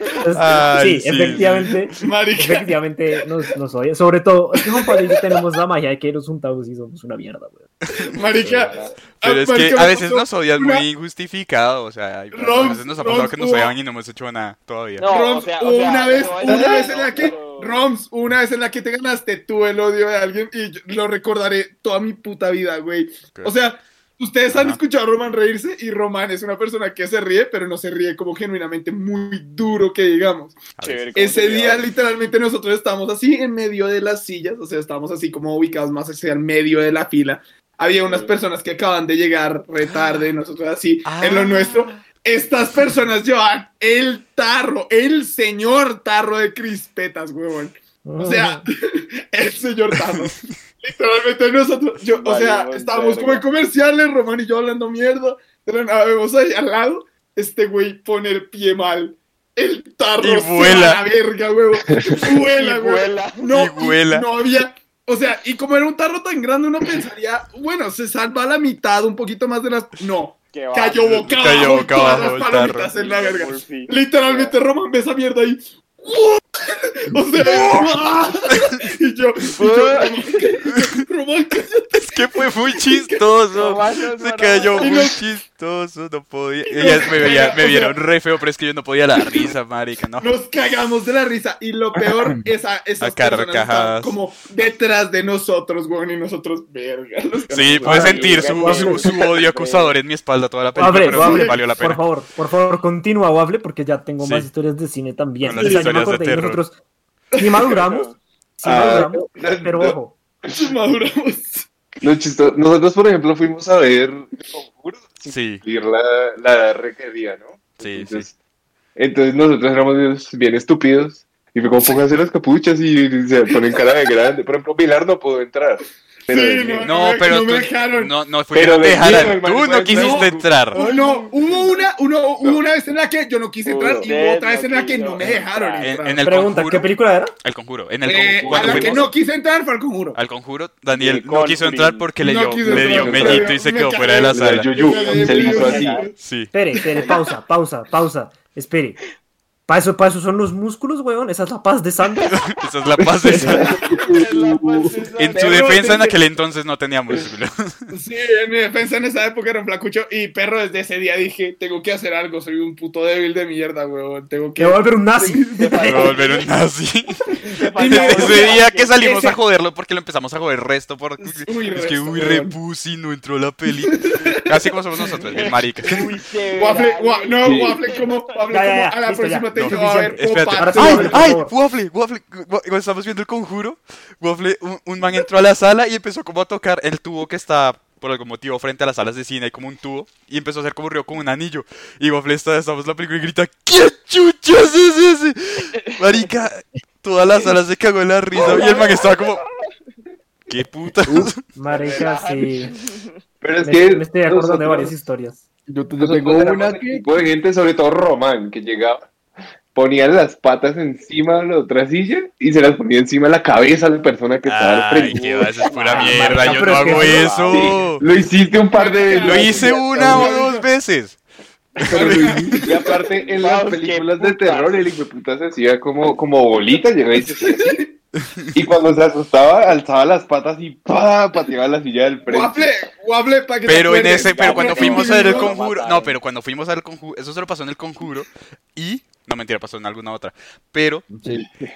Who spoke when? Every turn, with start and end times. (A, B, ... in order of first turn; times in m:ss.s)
0:00.2-0:07.7 A
0:00.3-0:01.8 B
0:02.0-0:02.7 C
0:04.8-0:05.2 C
0:08.0-0:10.8 C
0:08.1-0:09.0 D
0:09.2-0:15.1 B
0:12.3-0:13.7 C
0:15.0-0:17.8 D
0:15.1-0:30.6 C
0:16.4-0:17.2 E
0:24.5-0:24.8 B
0:30.8-0:31.1 B
0:30.8-0:31.9 D
0:31.2-1:23.2 C
0:38.1-0:38.4 D
0:41.0-0:42.0 B
0:48.0-0:48.7 A
0:49.9-0:50.4 B
0:52.1-0:53.4 D
1:00.2-1:01.0 B
1:02.5-1:03.4 D
1:03.5-1:04.3 B
1:10.5-1:11.2 D
1:11.0-1:12.9 B
1:13.0-1:14.6 D
1:19.6-1:20.6 D
1:22.0-1:30.3 B
1:23.5-1:24.9 D
1:24.8-1:25.2 C
1:26.7-1:28.0 C
1:30.2-1:38.5 C
1:33.0-1:34.2 B
1:37.5-1:42.0 B
1:37.8-1:39.1 A
1:37.9-1:40.0 D
1:40.8-1:46.7 A
1:40.9-1:41.6 C
1:44.2-1:44.5 B
1:45.4-1:46.6 B
1:45.6-1:45.9 C
1:47.4-1:47.6 C
1:47.4-1:50.1 A
1:47.6-1:48.2 D
1:48.6-1:50.0 E
1:50.6-1:51.7 C
1:52.0-1:58.3 E
1:55.3-1:55.6 B
1:57.8-1:58.3 B
1:59.0-2:06.9 E
2:06.3-2:08.1 C
2:06.8-2:10.8 B
2:08.5-2:10.8 E
2:09.9-2:16.2 C
2:10.7-2:11.8 D
2:13.6-2:15.9 D
2:15.8-2:16.9 B
2:16.2-2:17.3 A
2:17.4-2:19.1 B
2:18.0-2:20.2 C
2:18.4-2:19.0 E
2:18.5-2:19.1 D
2:20.2-2:24.7 B
2:21.0-2:22.1 D
2:22.2-2:26.1 C
2:22.6-2:23.6 E
2:24.3-2:26.1 E
2:24.9-2:26.0 D
2:26.2-2:26.5 B
2:26.5-2:29.0 A
2:29.7-2:32.3 A
2:32.5-2:33.7 B
2:33.0-2:33.5 E
2:33.3-2:35.0 F
2:33.6-2:36.2 D
2:34.0-2:36.2 C
2:35.2-2:37.9 B
2:37.9-2:46.2 C
2:44.6-2:46.1 A
2:45.5-2:46.5 D
2:45.8-2:56.1 B
2:47.4-2:48.9 D
2:47.8-2:49.4 C
2:51.2-2:52.6 C
2:53.8-2:54.4 C
2:55.1-2:58.4 D
2:56.5-3:01.4 C
2:57.4-2:57.8 E
2:58.5-3:01.5 A
2:59.6-3:19.4 B
3:18.4-3:19.7 D
3:20.5-3:21.4 B
3:21.1-3:21.3 F
3:21.5-3:22.7 A
3:21.7-3:23.2 D
3:23.4-3:24.9 E
3:23.6-3:25.4 A
3:25.7-3:27.0 F
3:26.0-3:29.1 E
3:29.7-3:35.7 E
3:34.5-3:38.0 B
3:35.2-3:37.8 D
3:35.9-3:37.4 A
3:37.5-3:40.3 E
3:38.7-3:40.7 C
3:39.2-3:41.2 B
3:41.8-3:47.8 E
3:41.8-3:42.6 B
3:41.9-3:43.0 C
3:43.3-3:44.8 D
3:47.2-3:47.9 C
3:48.2-3:48.6 B
3:48.5-3:52.7 E
3:52.3-3:55.5 C
3:53.7-4:01.0 B
3:54.3-3:56.2 D
4:01.1-4:01.5 F